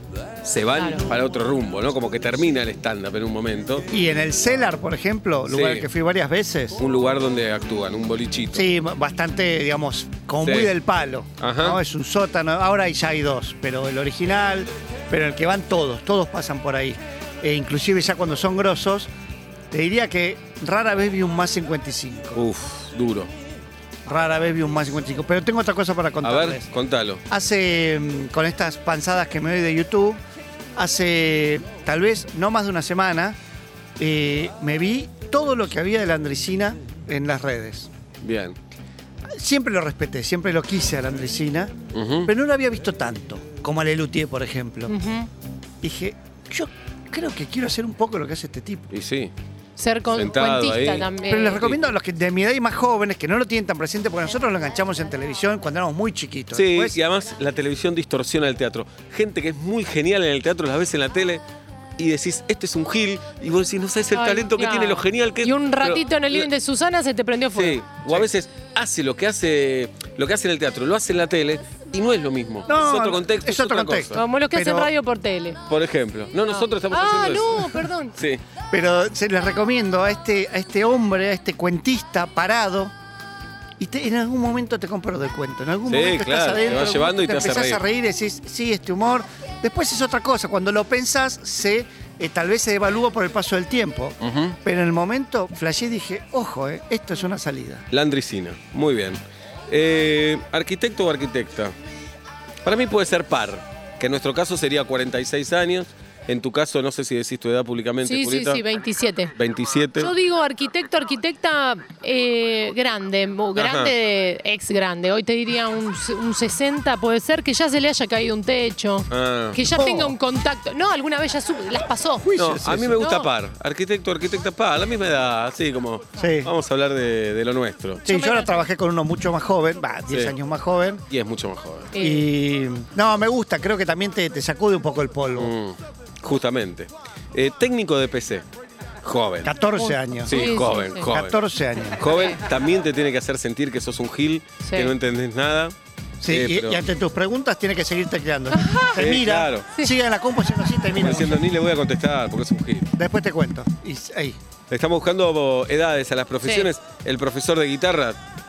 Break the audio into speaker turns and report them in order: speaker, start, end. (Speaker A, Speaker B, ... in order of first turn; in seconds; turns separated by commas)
Speaker A: 0.4-3.9, Speaker B: 0.8-1.0, Speaker C: 3.9-6.8, Speaker A: 5.5-5.9, Speaker A: 6.8-8.7, Speaker C: 8.5-19.1, Speaker A: 10.4-10.7, Speaker A: 11.4-11.8, Speaker C: 19.7-22.4, Speaker A: 22.3-23.3, Speaker C: 24.1-26.7, Speaker A: 26.2-27.2, Speaker C: 27.3-30.2, Speaker C: 30.8-33.4, Speaker C: 34.0-37.9, Speaker A: 38.2-38.5, Speaker C: 39.3-44.9, Speaker A: 41.9-42.3, Speaker B: 44.9-45.3, Speaker C: 45.8-48.9, Speaker A: 48.9-49.3, Speaker B: 49.8-51.6, Speaker A: 50.1-51.8, Speaker C: 51.2-56.9, Speaker A: 56.5-61.4, Speaker A: 62.0-66.5, Speaker B: 64.1-67.8, Speaker A: 67.5-74.2, Speaker C: 72.7-74.9, Speaker B: 74.1-75.6, Speaker A: 75.7-78.4, Speaker B: 76.5-78.1, Speaker C: 78.7-82.9, Speaker C: 83.8-97.8, Speaker A: 85.9-87.8, Speaker A: 94.2-94.6, Speaker A: 97.9-101.7, Speaker A: 102.6-108.6, Speaker B: 108.0-109.3, Speaker A: 109.3-110.1, Speaker B: 110.0-122.3, Speaker A: 113.5-113.9, Speaker A: 119.1-119.6, Speaker C: 119.7-120.1, Speaker C: 122.2-123.0, Speaker A: 122.4-128.0, Speaker B: 123.0-123.3, Speaker C: 126.2-126.5, Speaker B: 128.0-128.6, Speaker C: 128.0-131.0, Speaker A: 130.1-130.3, Speaker A: 131.1-131.9, Speaker B: 131.9-132.2, Speaker C: 131.9-135.5, Speaker A: 135.3-138.4, Speaker A: 139.0-139.5, Speaker C: 139.4-142.0, Speaker B: 139.8-141.0, Speaker A: 140.2-141.4, Speaker A: 142.0-145.7, Speaker B: 142.1-142.4, Speaker B: 144.6-144.9, Speaker C: 146.2-151.4, Speaker A: 146.3-146.8, Speaker B: 148.5-149.0, Speaker A: 148.9-149.7, Speaker A: 151.0-152.9, Speaker C: 153.0-154.4, Speaker A: 154.7-158.2, Speaker B: 156.4-156.7